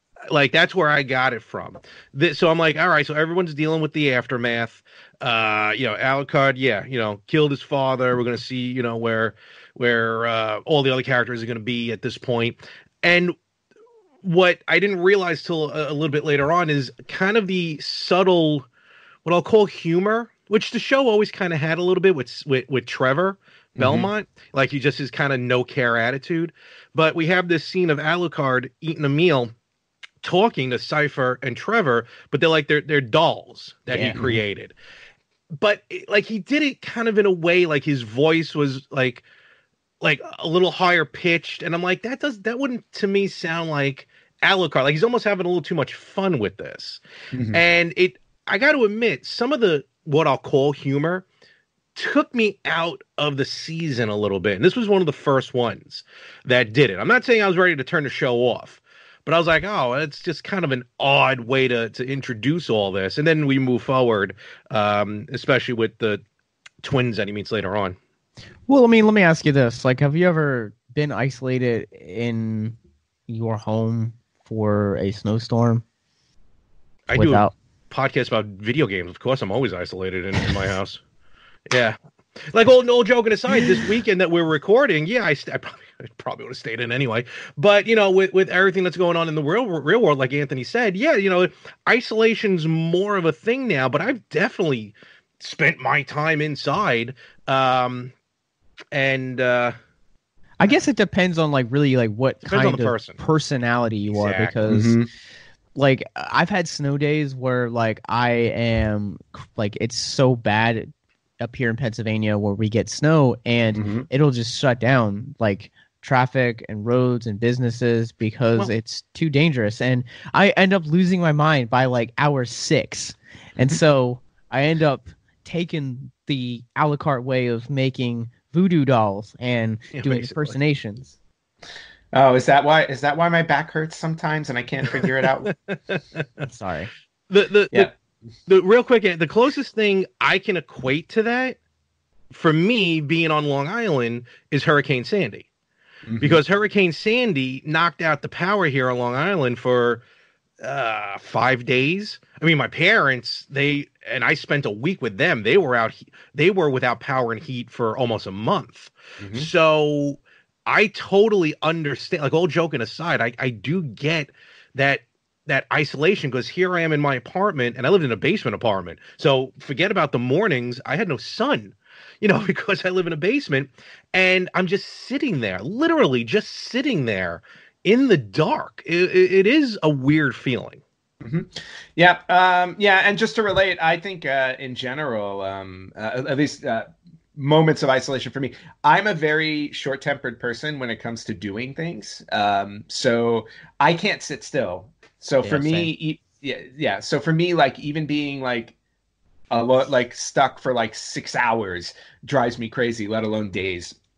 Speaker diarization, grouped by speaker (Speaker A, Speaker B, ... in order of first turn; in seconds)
Speaker A: 0.3-13.3, 14.2-18.6, 19.2-29.5, 30.2-34.7, 35.6-39.2, 40.0-47.0, 47.5-51.2, 52.0-66.2, 66.8-68.0, 77.1-81.0, 81.7-82.0, 82.5-98.1, 98.9-99.7, 102.4-103.2, 104.1-104.7, 129.9-130.5, 134.9-136.2, 137.3-137.9, 138.5-141.6, 142.3-145.5, 146.2-150.0, 150.6-180.8
Speaker B: 23.8-24.1, 47.3-47.6, 104.7-105.1, 113.7-114.1, 132.1-135.5, 146.1-146.4, 159.2-159.5, 181.2-198.7, 199.5-203.9
Speaker C: 33.9-34.4, 68.7-72.8, 73.3-75.8, 77.2-77.5, 100.6-105.0, 105.8-131.1, 136.4-136.9, 195.4-195.9